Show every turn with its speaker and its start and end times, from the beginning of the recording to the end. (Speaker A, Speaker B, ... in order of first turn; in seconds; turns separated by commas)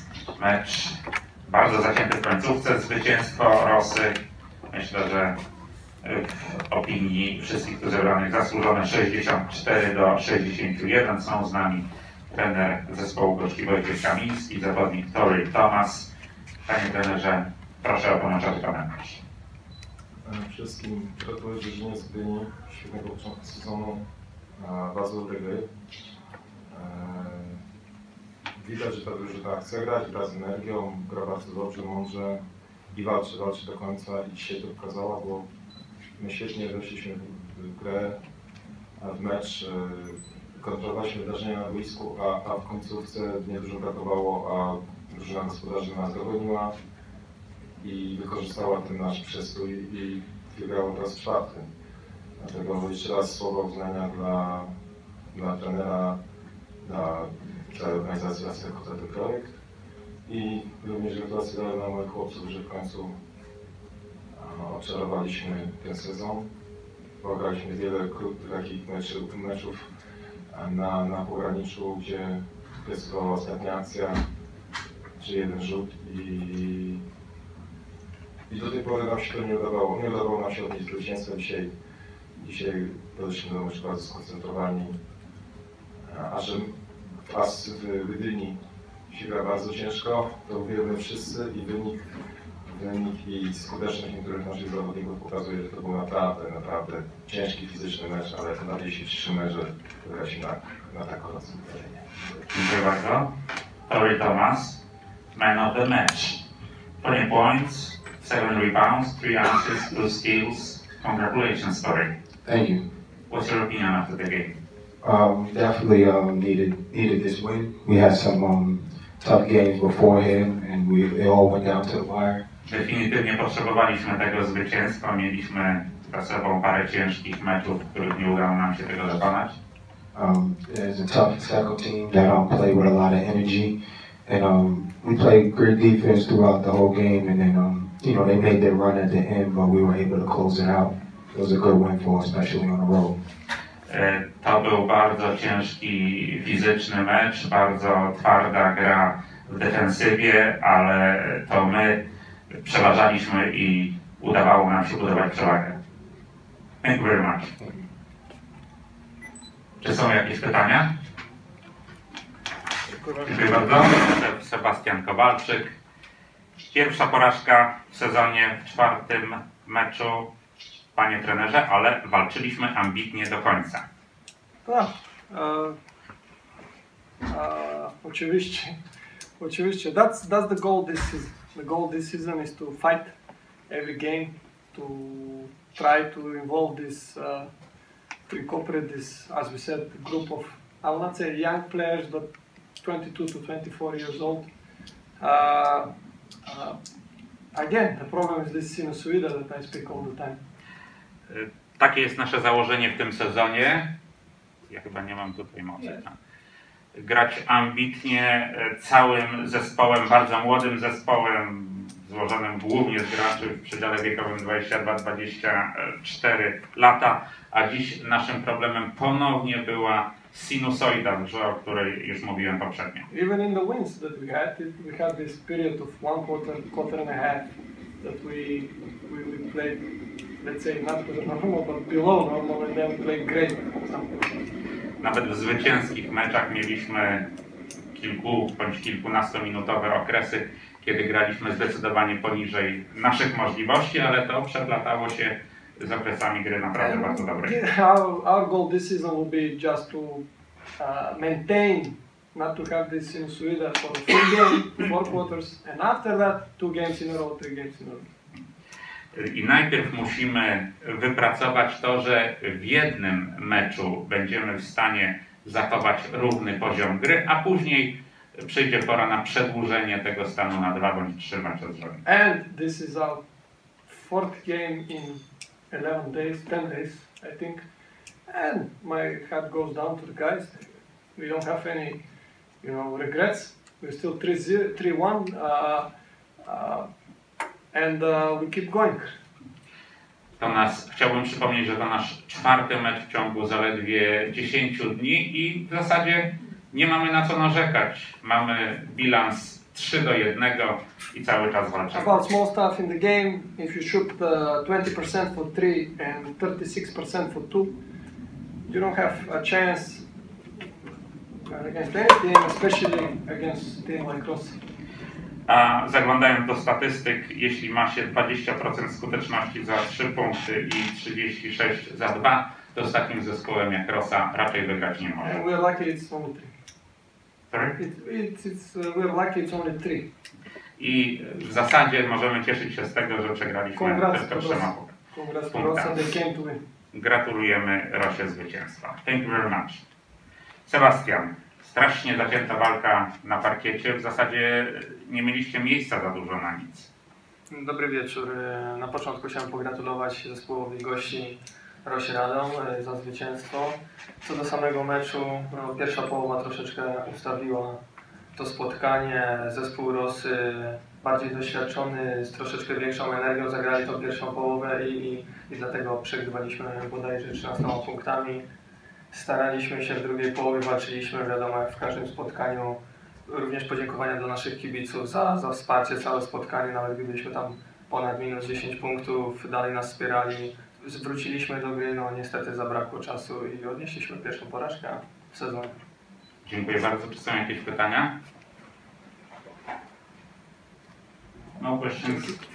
Speaker A: 0.4-4.2, Speaker A: 4.7-5.3, Speaker A: 6.0-16.1, Speaker A: 16.7-19.2, Speaker B: 20.2-24.0, Speaker B: 24.6-25.7, Speaker B: 26.7-27.6, Speaker B: 28.6-32.4, Speaker B: 32.9-35.5, Speaker B: 36.2-38.2, Speaker B: 39.0-46.7, Speaker B: 47.8-51.7, Speaker B: 52.4-54.7, Speaker B: 55.3-56.2, Speaker B: 56.8-59.6, Speaker B: 60.2-63.1, Speaker B: 64.3-66.5, Speaker B: 67.2-69.9, Speaker B: 70.5-74.2, Speaker B: 75.2-77.0, Speaker B: 78.5-81.7, Speaker B: 82.4-85.0, Speaker B: 86.0-86.8, Speaker B: 87.3-88.6, Speaker B: 89.1-92.0, Speaker B: 92.6-102.5, Speaker A: 102.5-103.3, Speaker A: 103.9-104.8, Speaker A: 105.3-106.4, Speaker A: 107.0-112.1, Speaker C: 112.5-112.8, Speaker A: 113.3-114.6, Speaker C: 115.0-122.4, Speaker A: 122.6-129.6, Speaker C: 130.1-143.2, Speaker A: 143.9-155.8, Speaker A: 156.8-157.6, Speaker A: 159.8-160.9, Speaker A: 163.1-165.8, Speaker A: 166.7-170.3, Speaker A: 170.9-173.9, Speaker D: 174.7-175.8, Speaker D: 177.3-178.7, Speaker D: 179.4-183.1, Speaker D: 183.7-187.5, Speaker D: 188.3-192.3, Speaker D: 192.8-194.5, Speaker D: 195.2-195.9, Speaker D: 196.4-196.8, Speaker D: 197.5-200.4, Speaker A: 201.3-203.9, Speaker A: 204.7-206.2, Speaker A: 206.9-223.1, Speaker D: 223.1-227.5, Speaker D: 228.0-229.8, Speaker D: 230.4-234.1, Speaker A: 235.0-237.3, Speaker A: 237.9-247.6, Speaker D: 246.8-250.3, Speaker D: 250.8-258.1, Speaker A: 259.1-272.0, Speaker D: 272.1-273.2, Speaker D: 273.9-277.6, Speaker D: 278.3-280.6, Speaker D: 281.2-282.0, Speaker D: 282.6-285.9, Speaker D: 286.4-286.9, Speaker D: 287.7-289.1, Speaker A: 290.4-302.2, Speaker D: 301.9-307.7, Speaker D: 308.6-310.1, Speaker D: 311.5-314.6, Speaker A: 315.5-325.4, Speaker D: 325.2-326.5, Speaker A: 327.5-327.8, Speaker D: 327.8-330.1, Speaker A: 330.8-334.9, Speaker D: 333.8-336.6, Speaker A: 335.5-336.0, Speaker A: 336.9-339.8, Speaker A: 340.7-346.9, Speaker E: 347.5-357.8, Speaker E: 358.4-368.4, Speaker E: 369.1-385.8, Speaker A: 386.4-388.1, Speaker A: 391.6-392.4